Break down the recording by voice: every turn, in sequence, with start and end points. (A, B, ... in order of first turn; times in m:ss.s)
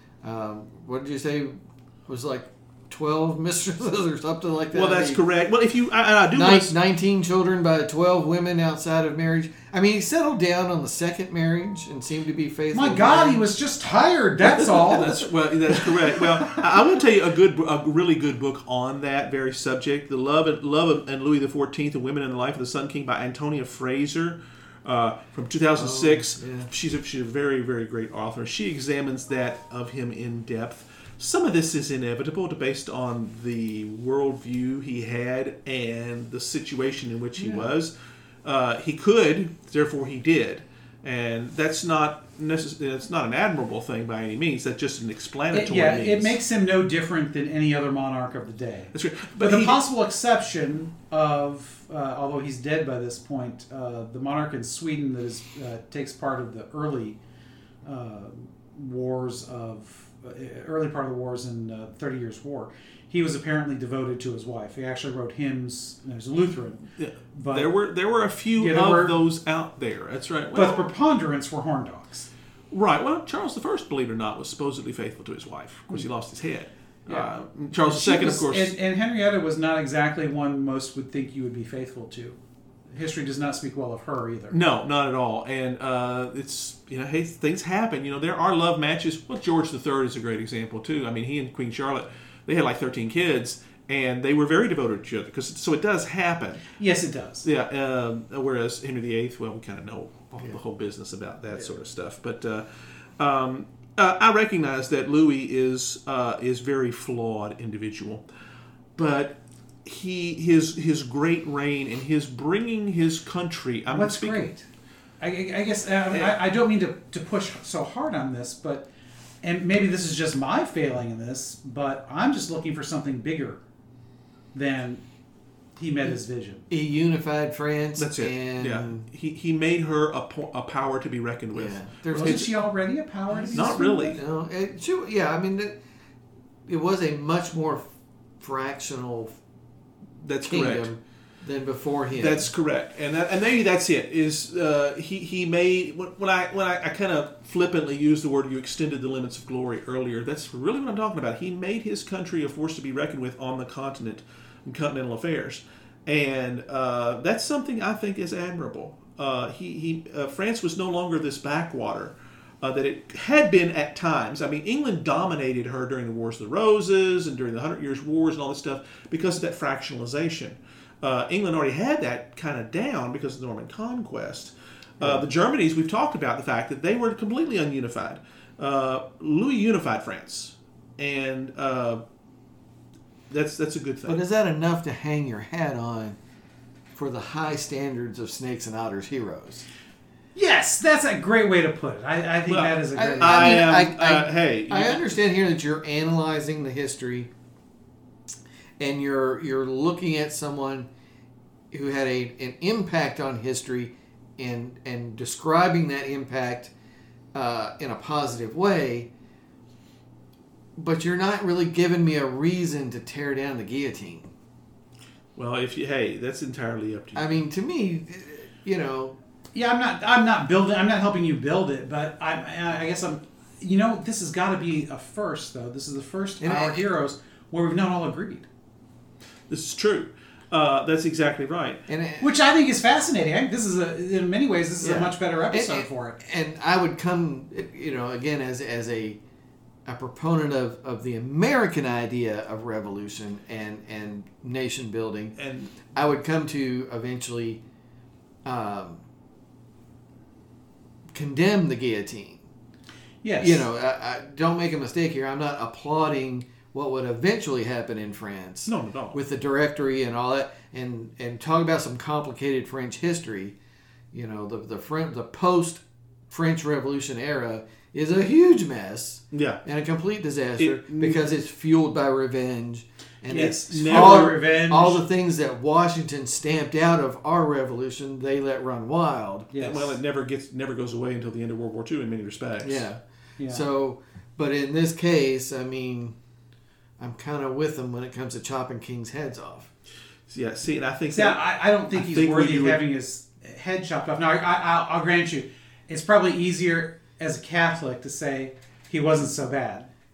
0:00.2-0:05.2 A
0:04.7-0:06.7 B
0:06.3-0:13.4 A
0:12.7-0:15.2 C
0:14.5-0:37.9 B
0:25.8-0:26.7 A
0:37.4-0:37.7 C
0:38.4-0:46.4 B
0:45.5-0:57.2 C
0:48.9-0:49.8 B
0:57.8-1:07.7 C
1:07.0-1:10.8 B
1:08.6-1:09.2 C
1:10.5-1:12.3 C
1:12.7-1:18.7 B
1:17.9-1:22.4 C
1:22.9-1:24.6 C
1:24.5-1:36.6 B
1:36.8-1:37.4 C
1:37.4-1:42.6 B
1:43.2-1:48.2 B
1:49.0-1:54.5 B
1:53.9-1:54.6 C
1:55.2-1:58.9 C
1:59.4-2:03.6 C
2:04.5-2:05.0 C
2:05.8-2:06.6 C
2:06.7-2:09.1 A
2:08.0-2:12.5 B
2:11.5-2:12.5 A
2:12.2-2:14.2 C
2:13.4-2:15.8 A
2:13.5-2:14.2 B
2:16.7-2:17.9 A
2:18.4-2:19.4 A
2:20.2-2:20.9 B
2:20.4-2:22.5 A
2:22.2-3:02.0 B
2:55.0-2:55.2 A
3:03.3-3:04.2 B
3:04.1-3:06.2 A
3:07.0-3:09.7 A
3:10.4-3:13.6 C
3:12.5-3:15.0 B
3:13.0-3:17.3 A
3:18.8-3:20.9 A
3:21.7-3:26.7 A
3:27.3-3:29.1 A
3:30.8-3:34.3 A
3:35.4-3:37.4 B
3:37.2-3:39.2 A
3:39.5-3:48.5 C
3:46.4-3:46.9 A
3:49.5-3:51.8 B
3:51.9-3:52.3 A
3:52.2-3:56.2 C
3:54.8-3:59.2 A
3:59.9-4:05.4 A
4:05.4-4:05.8 B
4:05.9-4:07.6 A
4:08.4-4:09.0 A
4:11.1-4:12.5 A
4:13.2-4:13.6 C
4:13.4-4:23.6 A
4:18.7-4:19.2 B
4:24.1-4:39.5 A
4:29.3-4:29.6 B
4:30.6-4:31.2 B
4:33.3-4:35.0 C
4:33.7-4:34.4 B
4:39.5-4:40.0 C
4:39.6-4:42.9 B
4:42.6-4:46.2 A
4:43.4-4:43.6 C
4:47.0-4:49.7 A
4:50.3-4:52.8 B
4:51.1-4:59.9 C